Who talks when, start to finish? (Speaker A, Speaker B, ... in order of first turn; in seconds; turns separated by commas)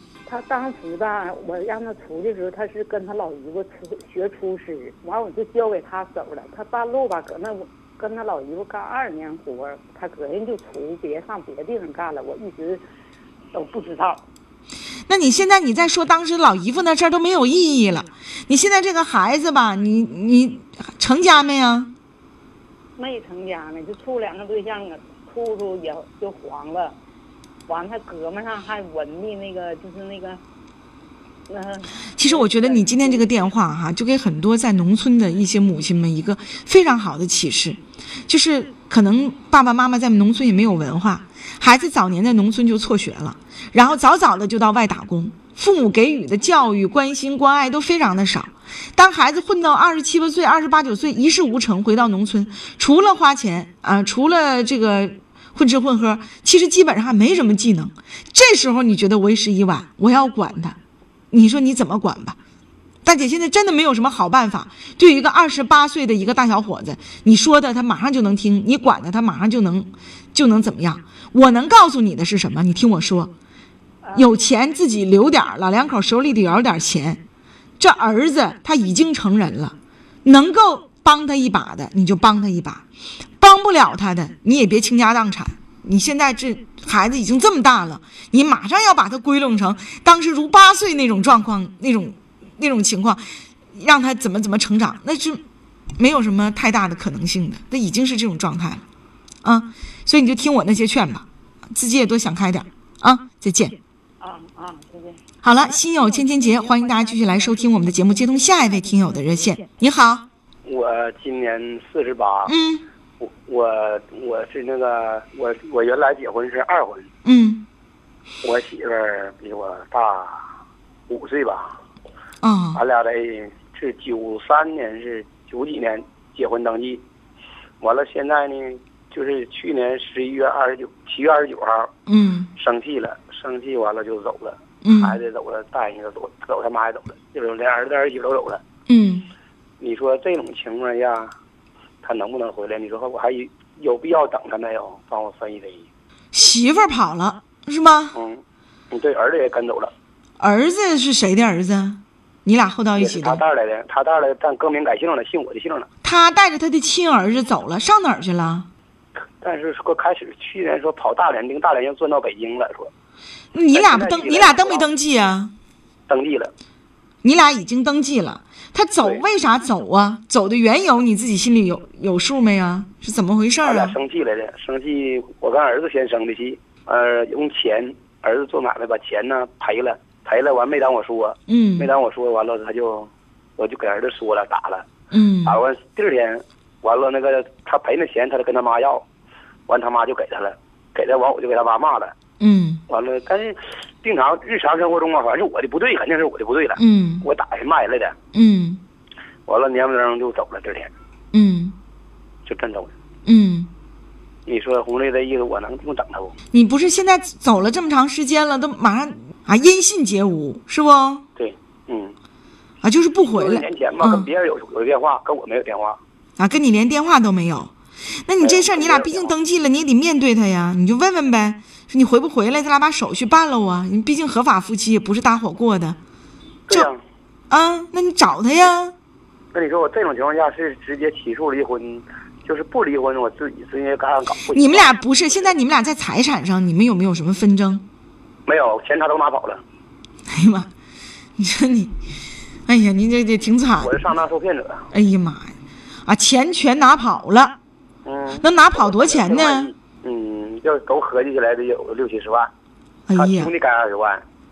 Speaker A: 0.3-12.8, Speaker A: 13.5-14.3, Speaker B: 15.1-21.9, Speaker A: 23.0-27.0, Speaker A: 27.7-30.4, Speaker A: 31.5-33.3, Speaker B: 32.2-60.8, Speaker B: 61.3-62.4, Speaker B: 63.0-73.3, Speaker A: 74.0-74.4, Speaker B: 74.2-77.2, Speaker B: 77.8-82.8, Speaker B: 83.4-95.4, Speaker B: 96.0-98.8, Speaker B: 99.4-103.8, Speaker A: 104.2-105.2, Speaker B: 105.4-110.3, Speaker C: 110.7-112.5, Speaker B: 112.5-112.9, Speaker C: 113.2-117.1, Speaker B: 117.2-117.7, Speaker C: 118.4-120.4, Speaker C: 121.1-121.8, Speaker B: 122.4-122.8, Speaker C: 122.8-127.0, Speaker C: 127.8-131.9, Speaker B: 132.1-132.5, Speaker C: 132.6-138.6, Speaker B: 134.8-135.2, Speaker B: 138.9-139.3, Speaker C: 139.8-141.3, Speaker C: 142.0-145.9, Speaker B: 146.3-148.2, Speaker C: 148.1-149.9, Speaker B: 150.4-153.4, Speaker C: 153.0-155.9, Speaker B: 156.0-158.7, Speaker C: 159.4-162.9, Speaker B: 163.5-165.5, Speaker C: 163.7-164.9, Speaker C: 166.1-166.5, Speaker B: 167.2-174.0, Speaker C: 173.6-184.9, Speaker B: 181.5-181.9, Speaker B: 185.1-185.6, Speaker C: 185.4-189.1, Speaker C: 189.7-192.2, Speaker B: 192.4-192.8, Speaker C: 192.9-198.2, Speaker B: 196.8-197.3, Speaker B: 198.3-198.8, Speaker C: 199.5-200.9, Speaker B: 201.3-201.8, Speaker C: 202.4-202.9, Speaker B: 203.3-203.7, Speaker C: 204.5-206.3, Speaker B: 206.5-211.2, Speaker C: 211.4-212.2, Speaker B: 212.8-214.3, Speaker C: 213.3-216.0, Speaker B: 216.4-217.7, Speaker B: 218.3-226.0, Speaker C: 218.4-219.3, Speaker C: 226.7-227.0, Speaker B: 227.5-228.9, Speaker C: 229.5-234.9, Speaker B: 234.5-237.9, Speaker C: 238.5-239.6, Speaker B: 240.3-240.7, Speaker B: 241.4-241.9, Speaker B: 242.7-244.0, Speaker C: 243.8-244.9, Speaker B: 244.9-247.6, Speaker C: 248.1-252.5, Speaker B: 248.4-249.7, Speaker B: 253.1-253.5, Speaker C: 253.1-254.2